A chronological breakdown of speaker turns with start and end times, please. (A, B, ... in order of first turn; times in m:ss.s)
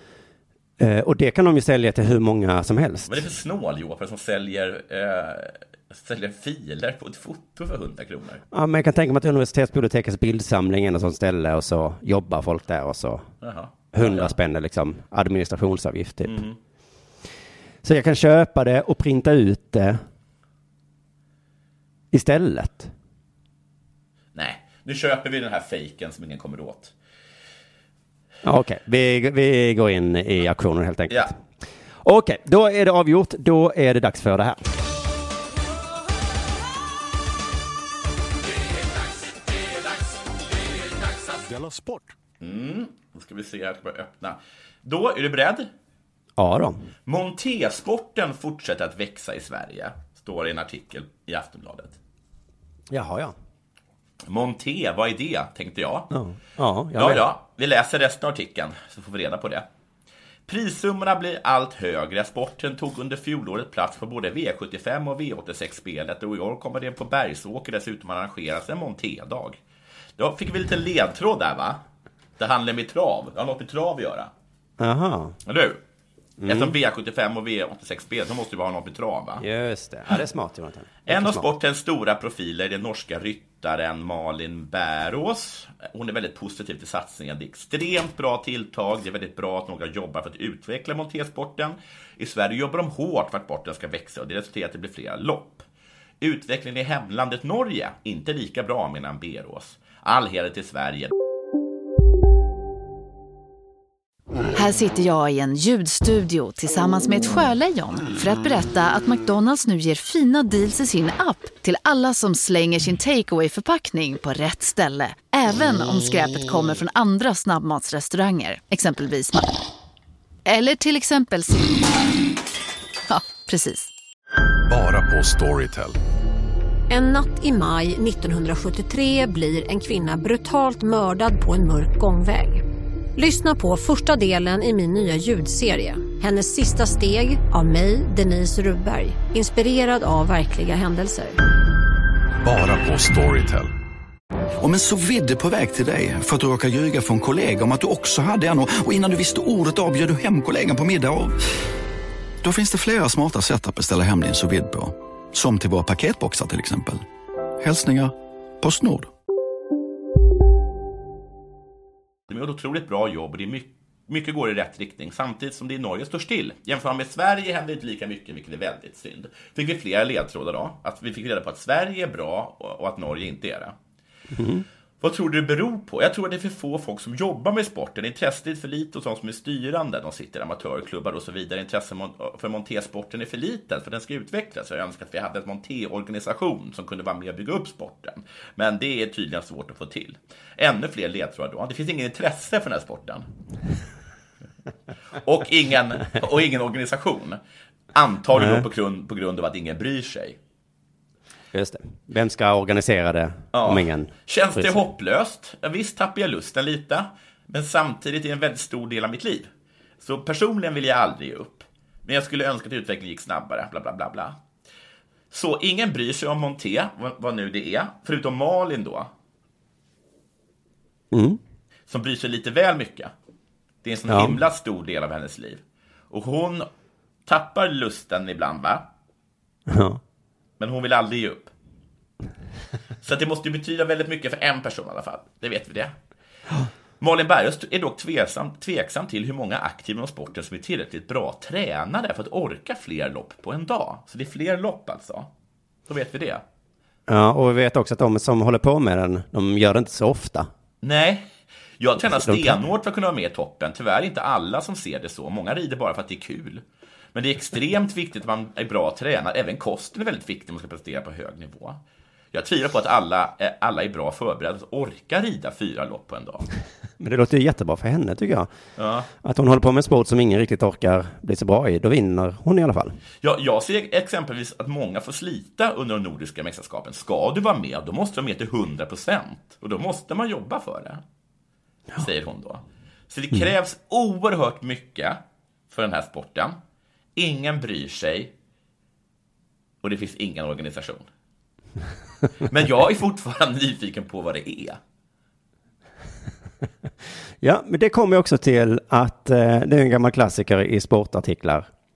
0:00.8-0:03.2 A
0:03.1-0:08.4 B
0:08.5-0:13.3 A
0:13.4-0:14.4 B
0:13.9-0:16.4 A
0:16.2-0:16.6 B
0:17.8-0:20.0 A
0:22.1-0:22.9 A
0:24.4-0:26.9 B
0:28.4-0:31.4 A
0:32.0-0:34.7 A
0:42.4-0:45.7 B
0:46.4-0:46.9 A
0:47.1-0:52.0 B
0:52.9-0:53.4 A
0:54.3-0:56.1 B
0:56.1-0:57.3 A
0:57.0-0:59.7 B
1:00.5-1:09.6 B
1:10.2-1:11.8 B
1:12.4-1:14.3 B
1:14.8-1:15.4 A
1:15.5-1:15.8 B
1:16.4-1:16.8 A
1:16.5-1:19.4 B
1:19.4-1:21.5 A
1:21.1-1:35.6 B
1:36.2-1:41.1 B
1:44.5-1:59.6 C
2:00.5-2:01.9 C
2:03.1-2:03.9 C
2:04.7-2:06.0 D
2:06.9-2:12.6 E
2:13.2-2:21.4 E
2:22.4-2:23.7 D
2:24.6-2:31.4 F
2:32.4-2:37.0 F
2:37.6-2:39.1 F
2:42.3-2:53.8 B
2:54.3-2:54.6 A
2:55.0-3:13.3 B
3:15.2-3:17.4 B
3:17.9-3:20.4 B
3:18.3-3:18.7 A
3:21.5-3:24.8 A
3:23.5-3:29.5 B
3:30.0-3:34.4 B
3:35.3-3:39.1 B
3:41.1-3:41.4 A
3:41.9-3:43.1 B
3:43.8-3:46.7 B
3:44.1-3:44.4 A
3:47.3-3:48.9 B
3:49.7-3:50.0 A
3:50.6-3:51.5 B
3:53.0-3:55.9 B
3:57.0-4:05.3 B
4:05.9-4:06.4 B
4:07.1-4:10.5 A
4:10.8-4:11.3 B
4:11.8-4:21.8 B
4:12.0-4:12.6 A
4:22.3-4:26.5 B
4:27.0-4:28.5 A
4:28.8-4:29.1 B
4:29.2-4:33.0 A
4:33.2-4:41.0 B
4:42.0-4:46.6 B
4:47.2-4:48.3 B
4:49.8-4:51.1 B
4:52.4-4:54.8 B
4:57.4-5:01.7 A